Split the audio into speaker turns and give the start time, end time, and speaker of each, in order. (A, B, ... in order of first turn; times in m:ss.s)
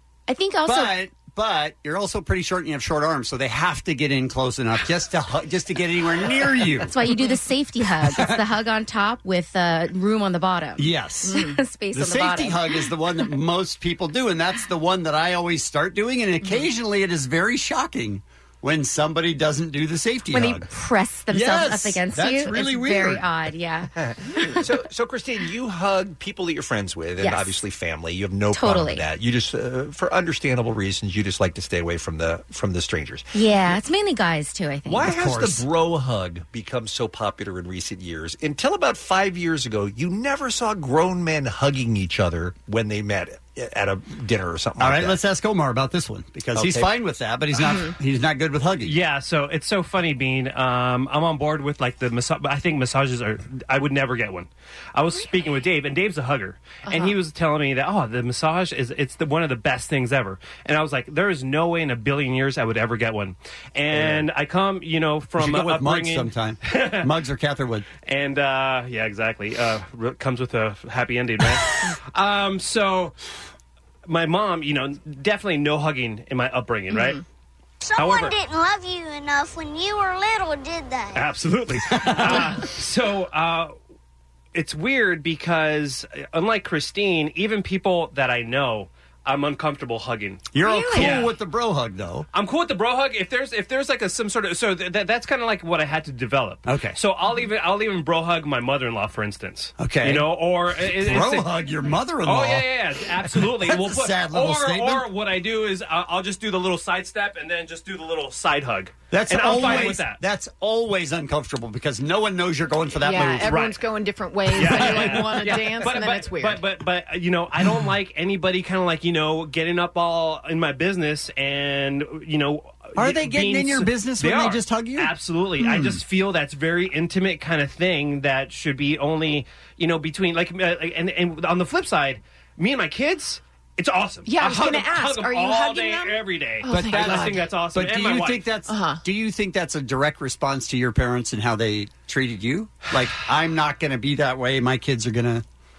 0:00.3-0:01.0 A
0:00.6-0:07.0 B
0:06.8-0:12.7 A
0:08.0-0:08.4 B
0:10.8-0:20.7 B
0:11.2-0:11.6 C
0:20.3-0:23.9 A
0:21.3-0:23.3 B
0:24.0-0:33.7 D
0:27.2-0:27.5 A
0:28.5-0:29.0 A
0:33.3-0:35.1 A
0:34.8-0:45.2 D
0:35.0-0:35.6 B
0:44.8-0:49.0 B
0:46.6-0:46.9 D
0:48.8-1:07.1 E
0:56.8-0:57.2 C
1:05.4-1:07.8 B
1:08.0-1:13.1 E
1:14.1-1:17.2 E
1:16.9-1:17.2 C
1:17.8-1:21.2 F
1:18.0-1:18.4 E
1:21.1-1:23.7 E
1:22.0-1:22.4 B
1:24.5-1:31.3 E
1:30.5-1:32.3 B
1:30.6-1:31.2 C
1:32.3-1:41.6 E
1:36.6-1:37.0 B
1:39.8-1:42.7 B
1:42.2-1:50.2 E
1:43.3-1:45.1 B
1:49.1-1:53.6 B
1:53.0-1:56.6 C
1:53.5-1:53.7 E
1:54.5-2:18.5 E
1:54.6-1:55.5 B
2:03.0-2:06.0 B
2:14.2-2:17.5 C
2:16.6-2:25.4 B
2:18.7-2:19.0 C